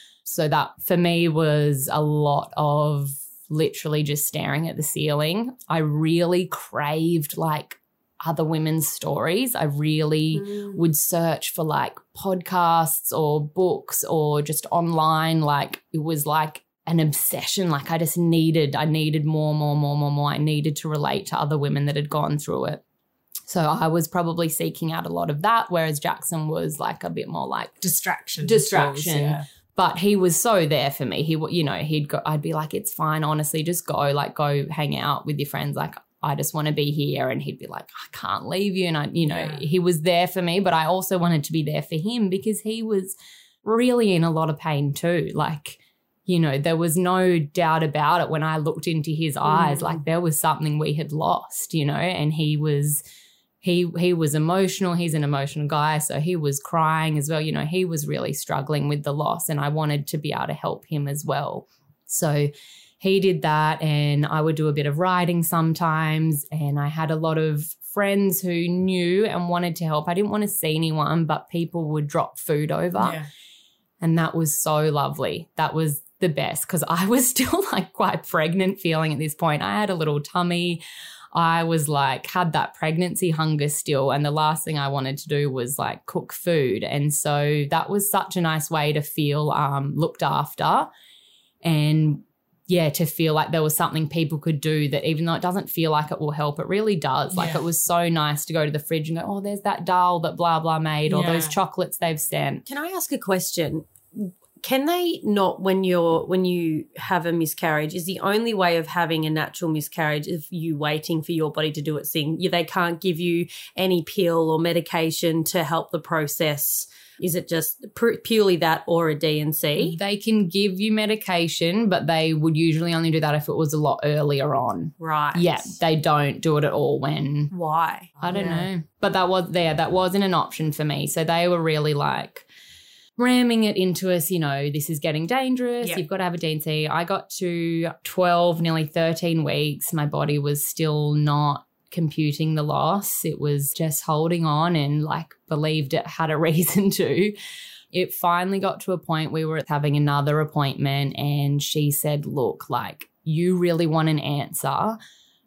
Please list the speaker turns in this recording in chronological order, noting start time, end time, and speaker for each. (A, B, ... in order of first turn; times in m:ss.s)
0:00.2-0:22.8 A
0:10.3-0:10.8 B
0:23.5-0:27.8 A
0:27.8-0:29.4 C
0:28.4-0:53.0 A
0:39.2-0:39.7 C
0:49.4-0:50.0 B
0:53.6-1:13.2 A
1:13.0-1:13.3 C
1:14.0-1:20.8 A
1:21.3-1:30.9 A
1:31.6-1:42.7 A
1:37.3-1:37.6 C
1:41.1-1:41.6 C
1:42.7-2:00.0 B
1:59.9-2:07.5 A
2:05.0-2:05.7 B
2:07.5-2:08.7 B
2:08.2-2:12.4 A
2:13.2-2:27.3 A
2:27.9-2:35.0 A